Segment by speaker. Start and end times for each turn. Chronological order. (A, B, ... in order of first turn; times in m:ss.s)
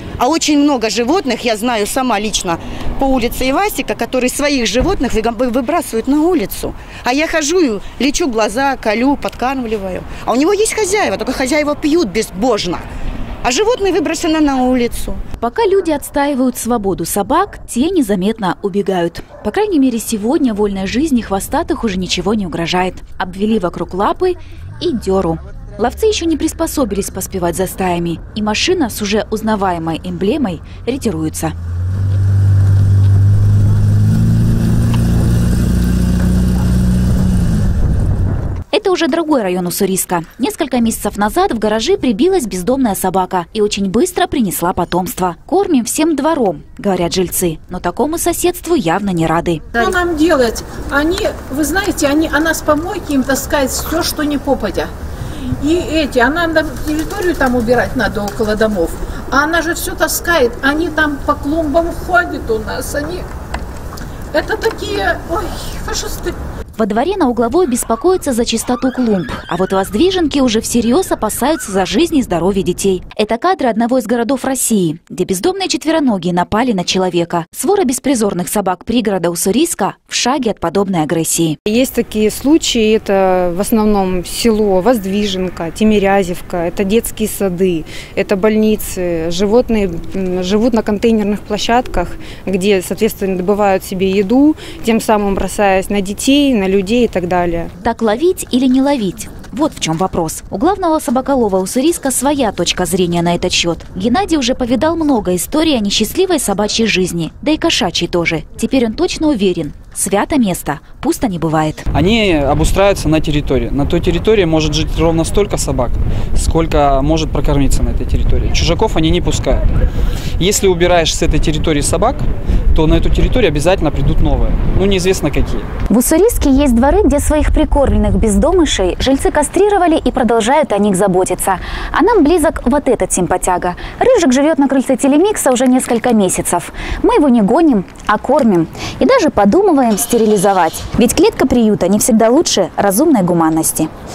0:00.2-0:12.8 A
0:13.4-0:15.2 A
0:15.4-0:31.5 B
0:38.7-0:49.9 B
0:49.7-1:03.3 C
1:04.3-1:06.4 C
1:06.8-1:21.6 B
1:21.7-1:37.7 D
1:37.8-1:51.8 B
1:51.9-1:59.6 E
2:00.4-2:05.7 E
2:05.9-2:23.9 B